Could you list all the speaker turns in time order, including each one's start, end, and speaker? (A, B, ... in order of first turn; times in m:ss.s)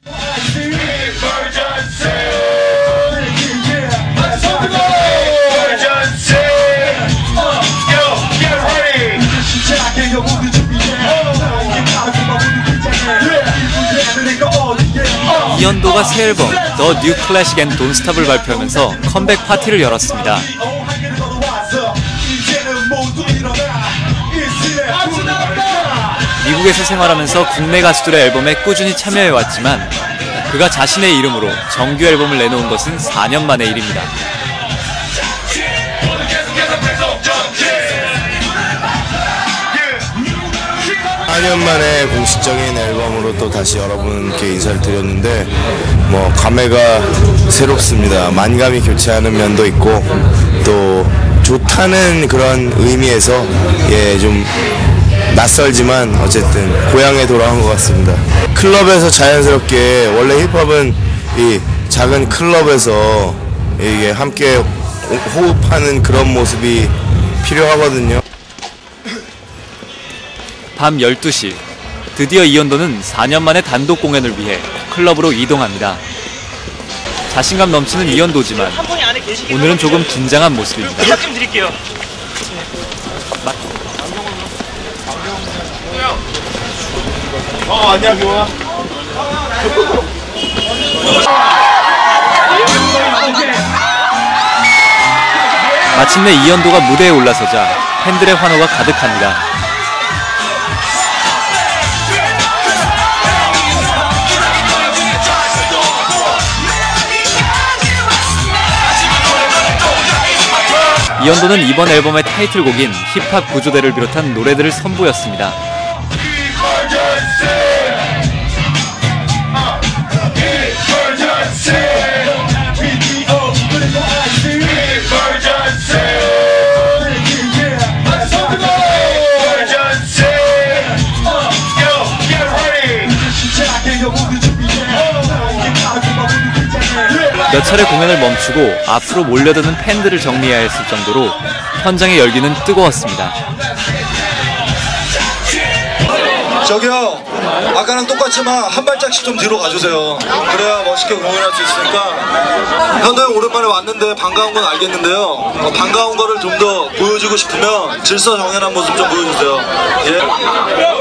0:05.1-0:07.0 A
0:08.1-0:09.3 A
0:15.2-0:20.5 B
0:26.4-0:29.9 B
0:30.5-0:34.1 B
0:41.2-0:45.5 A
0:46.0-0:54.5 A
0:55.3-1:08.2 A
1:10.8-1:11.6 B
1:12.1-1:16.0 B
1:17.3-1:18.8 B
1:19.5-1:21.4 B
1:27.8-1:28.4 A
1:35.9-1:39.4 B
1:51.2-1:55.6 B
2:04.7-2:05.4 A
2:09.1-2:10.6 A
2:12.1-2:13.0 A
2:17.5-2:23.4 B
2:26.6-2:32.3 C
2:33.0-2:40.3 C